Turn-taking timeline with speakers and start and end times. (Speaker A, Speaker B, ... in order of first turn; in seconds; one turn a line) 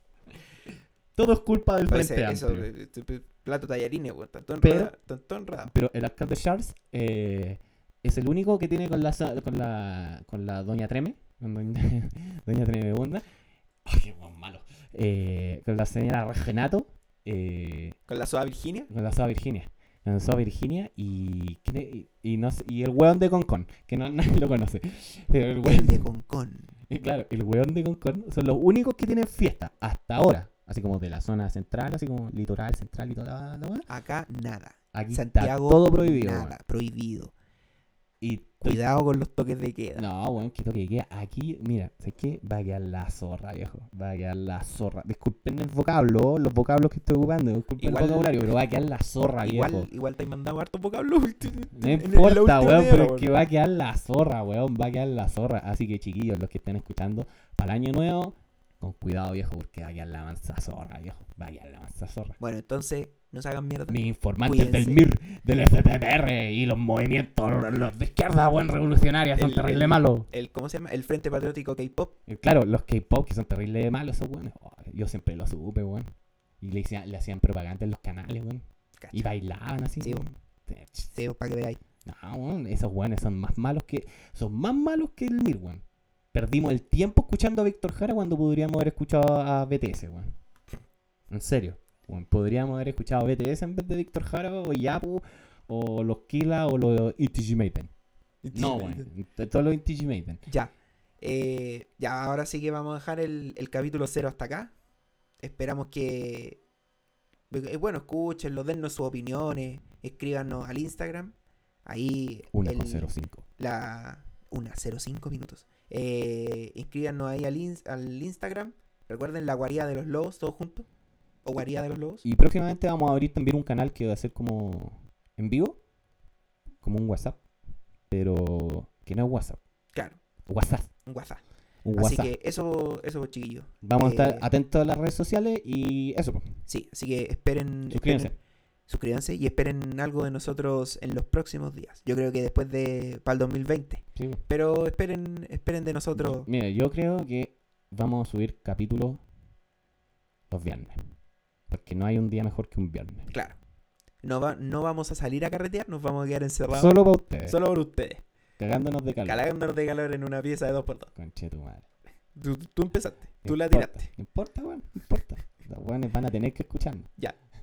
Speaker A: 1.1-2.7
Speaker B: 1.9-5.7
Speaker A: 4.6-4.9
Speaker A: 5.7-13.2
Speaker A: 13.8-18.0
Speaker B: 18.1-18.9
Speaker A: 18.9-26.1
Speaker B: 25.6-26.7
Speaker A: 26.9-33.9
Speaker B: 33.9-37.3
Speaker A: 34.9-36.5
Speaker A: 38.2-38.8
Speaker B: 38.6-40.1
Speaker A: 40.0-49.9
Speaker B: 47.8-48.5
Speaker B: 49.4-53.3
Speaker A: 51.7-62.4
Speaker B: 62.4-65.0
Speaker A: 63.9-70.3
Speaker B: 69.4-72.1
Speaker A: 72.3-81.1
Speaker B: 79.0-79.3
Speaker B: 80.0-80.3
Speaker B: 81.1-81.8
Speaker A: 82.0-90.3
Speaker A: 91.3-97.9
Speaker B: 98.4-99.1
Speaker A: 98.5-100.4
Speaker B: 100.5-104.7
Speaker B: 105.4-106.6
Speaker B: 107.5-111.3
Speaker B: 111.8-120.9
Speaker A: 112.5-113.5
Speaker B: 121.5-122.2
Speaker A: 122.2-125.8
Speaker A: 126.8-127.4
Speaker A: 128.1-129.6
Speaker B: 129.9-130.2
Speaker A: 130.5-130.9
Speaker B: 131.1-131.4
Speaker A: 131.8-132.3
Speaker B: 132.0-134.5
Speaker A: 133.8-136.5
Speaker B: 136.7-138.3
Speaker A: 137.9-138.3
Speaker B: 138.9-146.5
Speaker A: 144.2-144.4
Speaker A: 146.2-149.2
Speaker A: 150.5-151.0
Speaker A: 151.7-153.3
Speaker B: 153.3-153.6
Speaker B: 154.2-158.2
Speaker A: 156.7-157.6
Speaker A: 158.6-159.4
Speaker B: 159.2-161.1
Speaker A: 161.2-161.9
Speaker B: 162.4-164.1
Speaker A: 163.4-167.1